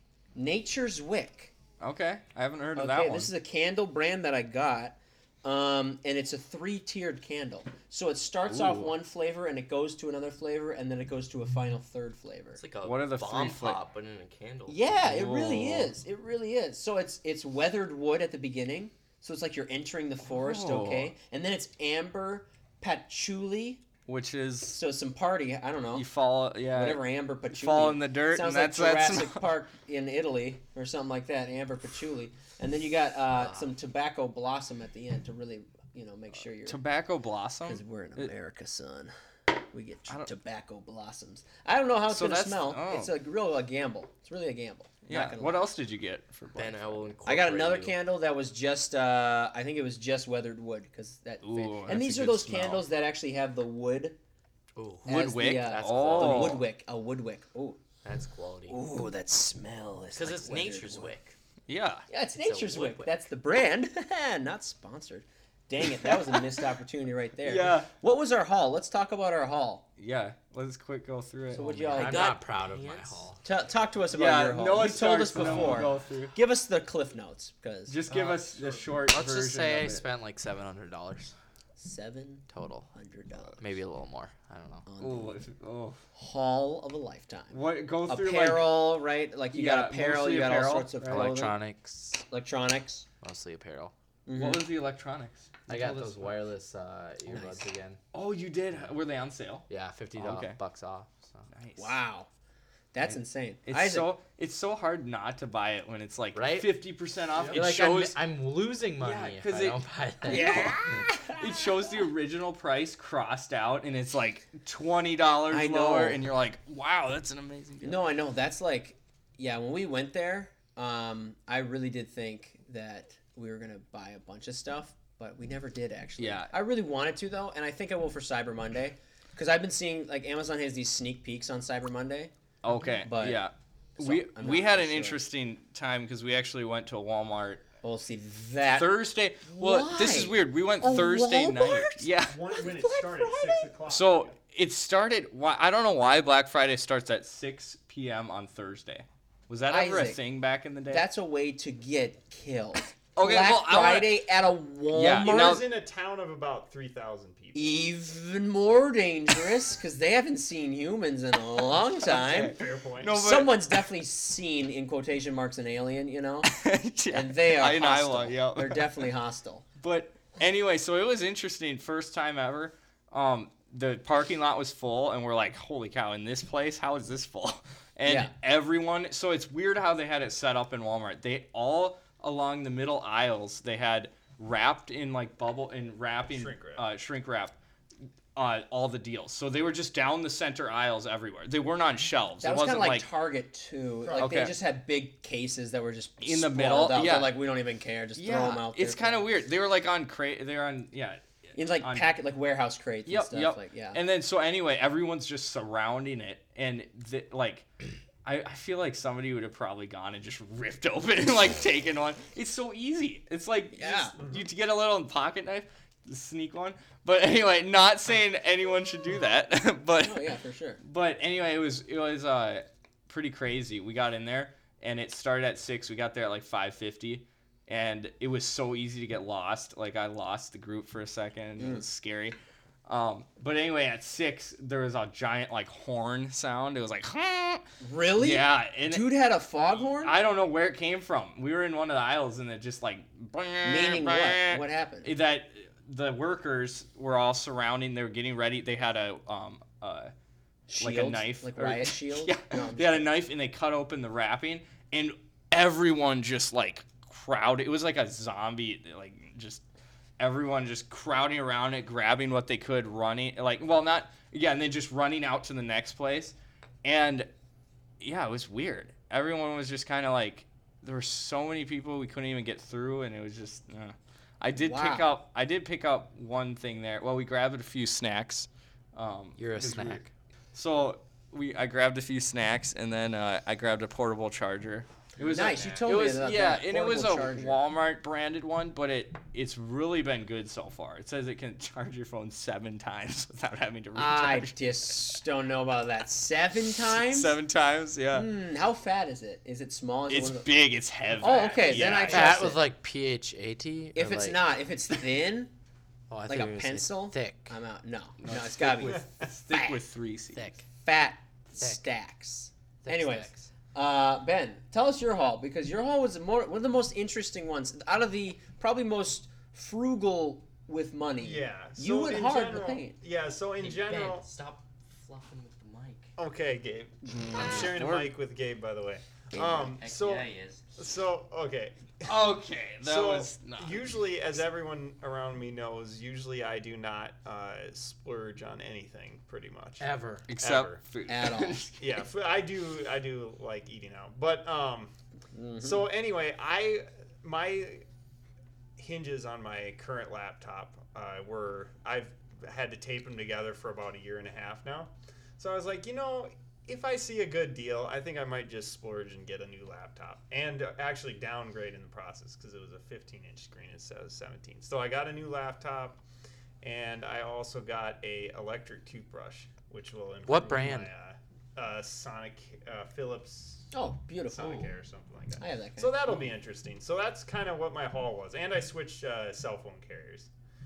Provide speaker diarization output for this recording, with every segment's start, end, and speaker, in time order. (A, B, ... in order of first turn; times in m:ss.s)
0:00.4-0:01.5 A
0:01.8-0:03.3 B
0:02.8-0:12.6 A
0:08.5-0:08.9 B
0:12.6-0:14.9 C
0:12.8-0:13.8 B
0:14.7-0:23.8 A
0:15.0-0:15.9 B
0:20.3-0:21.1 B
0:24.1-0:24.8 B
0:24.7-0:26.1 A
0:26.0-0:29.5 B
0:26.7-0:36.8 A
0:36.7-0:38.3 B
0:37.6-0:39.1 A
0:39.7-0:45.7 A
0:42.1-0:43.1 B
0:45.1-0:47.2 B
0:46.6-0:48.0 C
0:47.3-0:54.2 A
0:51.4-0:52.8 B
0:54.8-0:56.7 C
0:55.1-0:56.6 B
0:55.1-0:57.8 A
0:58.0-0:58.8 C
0:58.7-1:01.1 A
1:00.2-1:01.4 C
1:01.7-1:02.0 B
1:02.1-1:09.8 A
1:02.4-1:03.2 C
1:06.1-1:06.4 B
1:07.4-1:07.9 B
1:10.0-1:12.0 B
1:11.5-1:12.3 A
1:11.9-1:13.4 D
1:11.9-1:13.3 C
1:13.4-1:18.0 A
1:14.1-1:16.4 B
1:17.9-1:20.0 B
1:18.1-1:19.1 E
1:19.1-1:21.3 D
1:21.8-1:23.8 A
1:22.5-1:22.9 D
1:23.6-1:24.8 D
1:24.9-1:25.4 A
1:25.0-1:26.0 B
1:26.2-1:31.6 A
1:27.5-1:28.8 B
1:29.5-1:31.4 B
1:31.1-1:32.2 D
1:32.3-1:33.1 A
1:33.2-1:33.9 D
1:34.3-1:34.7 A
1:34.4-1:36.4 B
1:35.7-1:38.0 D
1:38.1-1:40.6 B
1:39.7-1:41.5 D
1:41.5-1:42.0 B
1:41.8-1:42.3 A
1:42.9-1:44.1 A
1:43.7-1:48.2 B
1:46.4-1:46.8 D
1:47.5-1:50.8 D
1:49.0-1:58.0 B
1:50.2-1:52.0 A
1:55.5-1:56.2 A
1:57.8-2:12.3 A
2:06.2-2:06.5 B
2:12.6-2:17.6 B
2:13.0-2:13.4 A
2:14.0-2:15.2 A
2:17.8-2:23.7 A
2:18.7-2:22.4 B
2:22.3-2:24.4 E
2:23.9-2:31.1 B
2:29.7-2:30.2 A
2:30.9-2:35.6 A
2:33.2-2:34.2 B
2:34.9-2:35.6 B
2:35.1-2:37.9 E
2:37.5-2:42.6 A
2:42.1-2:43.8 B
2:42.4-2:43.2 E
2:43.1-2:46.5 A
2:46.5-2:49.0 B
2:47.1-2:49.6 A
2:49.8-3:07.6 B
2:58.0-2:58.3 A
3:06.3-3:06.8 E
3:08.4-3:13.1 B
3:12.4-3:19.3 A
3:14.0-3:14.5 E
3:14.2-3:14.5 B
3:16.2-3:17.4 B
3:18.2-3:22.1 B
3:21.6-3:24.0 A
3:23.1-3:27.7 B
3:28.2-3:40.3 B
3:33.7-3:34.2 A
3:34.2-3:34.5 E
3:40.0-3:40.8 A
3:40.8-3:57.6 B
3:51.6-3:51.8 A
3:57.8-4:00.2 A
3:58.2-3:59.1 B
3:59.8-4:10.1 B
4:03.6-4:05.1 A
4:10.7-4:13.1 A
4:10.8-4:19.6 B
4:20.2-4:27.3 B
4:28.0-4:54.7 B
4:34.6-4:35.1 A
4:39.4-4:40.1 D
4:45.2-4:47.7 A
4:45.4-4:45.9 C
4:54.0-4:57.3 A
4:56.8-4:58.3 B
4:58.1-5:00.5 A
5:00.1-5:02.5 B
5:01.2-5:02.6 A
5:01.6-5:02.1 E
5:02.1-5:04.4 D
5:04.0-5:05.5 A
5:06.1-5:07.6 D
5:06.3-5:09.8 A
5:08.2-5:10.5 B
5:10.4-5:10.6 D
5:10.8-5:23.0 A
5:12.8-5:13.5 D
5:21.2-5:24.3 E
5:23.6-5:26.1 C
5:26.2-5:32.2 E
5:27.1-5:28.1 B
5:29.3-5:29.8 A
5:29.7-5:30.8 C
5:32.1-5:34.0 B
5:32.8-5:39.9 E
5:39.8-5:40.3 D
5:40.3-5:42.1 B
5:40.4-5:40.8 E
5:41.1-5:41.6 A
5:41.8-5:44.9 E
5:45.3-5:45.9 A
5:45.6-5:47.8 E
5:48.8-6:06.0 E
6:06.6-6:13.7 E
6:10.3-6:10.9 D
6:13.7-6:14.7 A
6:14.3-6:20.3 E
6:15.4-6:16.0 A